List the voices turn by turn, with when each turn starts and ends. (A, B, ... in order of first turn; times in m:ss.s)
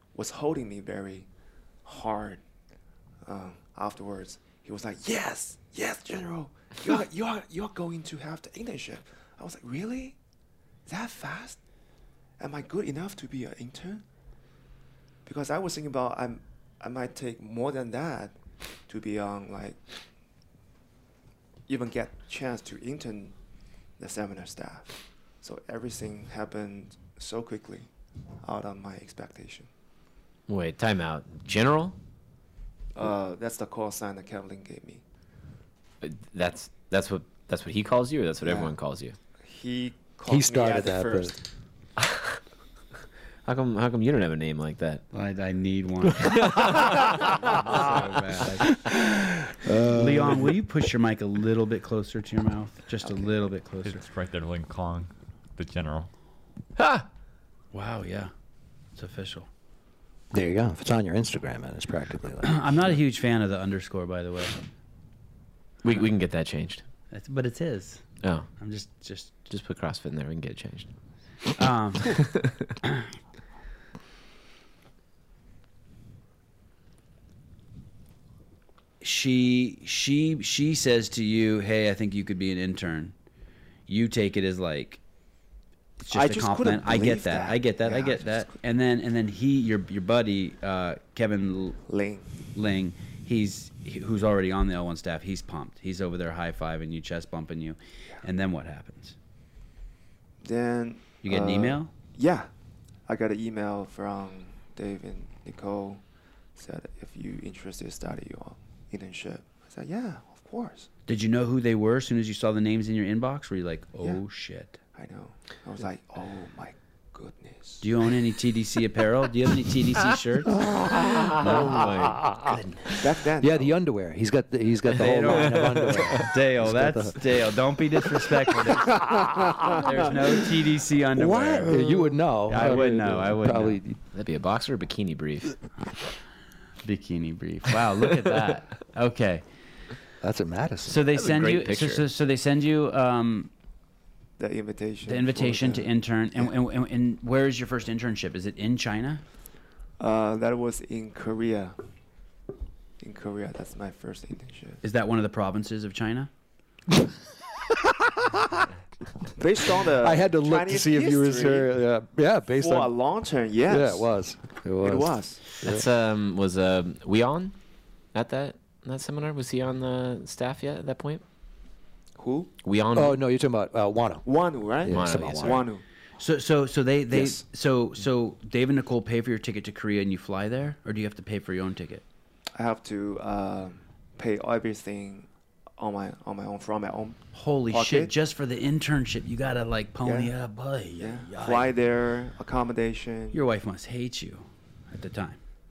0:00.1-0:01.3 A
0:01.8-0:02.4 A
0:03.2-0:10.2 A
0:10.9-0:11.6 A
0:12.4-0:14.0 A
0:15.2-0:18.4 A
0:18.9-0:19.8 A
0:21.7-0:23.4 A
0:24.0-0:27.9 A
0:28.4-0:29.7 A
0:30.5-0:32.0 B
0:33.0-0:35.0 A
0:36.0-0:39.2 B
0:38.4-0:38.7 A
0:39.4-0:41.4 A
0:40.3-0:41.3 C
0:43.4-0:45.0 B
0:45.1-0:48.7 D
0:46.5-0:47.1 B
0:48.7-0:50.6 C
0:49.9-0:54.0 D
0:53.8-0:56.1 E
0:56.8-0:57.1 B
0:57.7-0:58.3 D
0:59.0-0:59.5 D
1:00.3-1:02.6 C
1:02.4-1:04.6 D
1:05.8-1:06.8 B
1:07.1-1:08.0 D
1:08.6-1:09.4 D
1:09.5-1:10.9 B
1:11.6-1:12.2 D
1:19.0-1:23.2 D
1:23.9-1:25.0 D
1:26.0-1:31.8 D
1:26.1-1:28.6 A
1:31.9-1:32.3 A
1:32.5-1:39.2 D
1:40.4-1:42.5 A
1:41.2-1:41.9 D
1:43.1-1:46.0 A
1:46.6-1:50.9 A
1:51.1-1:54.8 D
1:55.0-1:57.8 A
1:57.8-2:00.7 D
2:00.6-2:02.6 C
2:01.0-2:02.2 B
2:01.4-2:02.9 D
2:03.0-2:03.7 A
2:03.4-2:07.2 C
2:05.0-2:11.8 D
2:05.5-2:06.0 B
2:09.0-2:09.8 C
2:09.0-2:09.9 A
2:11.2-2:14.0 C
2:12.4-2:13.8 D
2:14.1-2:15.6 B
2:16.8-2:19.4 D
2:20.2-2:21.0 C
2:20.8-2:23.5 D
2:21.1-2:22.1 B
2:24.4-2:26.5 A
2:25.1-2:29.2 D
2:30.0-2:31.8 A
2:33.0-2:34.8 A
2:34.8-2:36.3 D
2:37.7-2:38.7 C
2:39.4-2:41.7 A
2:39.8-2:42.9 C
2:42.6-2:44.1 A
2:43.7-2:45.8 C
2:44.8-2:45.4 A
2:45.6-2:47.6 B
2:48.1-2:51.2 B
2:52.2-2:52.5 A
2:52.6-2:53.2 B
2:52.9-2:54.3 C
2:54.2-2:55.8 A
2:54.8-2:55.6 C
2:54.9-2:55.7 B
2:56.2-3:02.0 D
2:57.1-2:57.4 A
3:02.5-3:08.1 A
3:07.3-3:11.7 D
3:10.0-3:10.3 A
3:11.0-3:13.4 A
3:13.3-3:15.4 D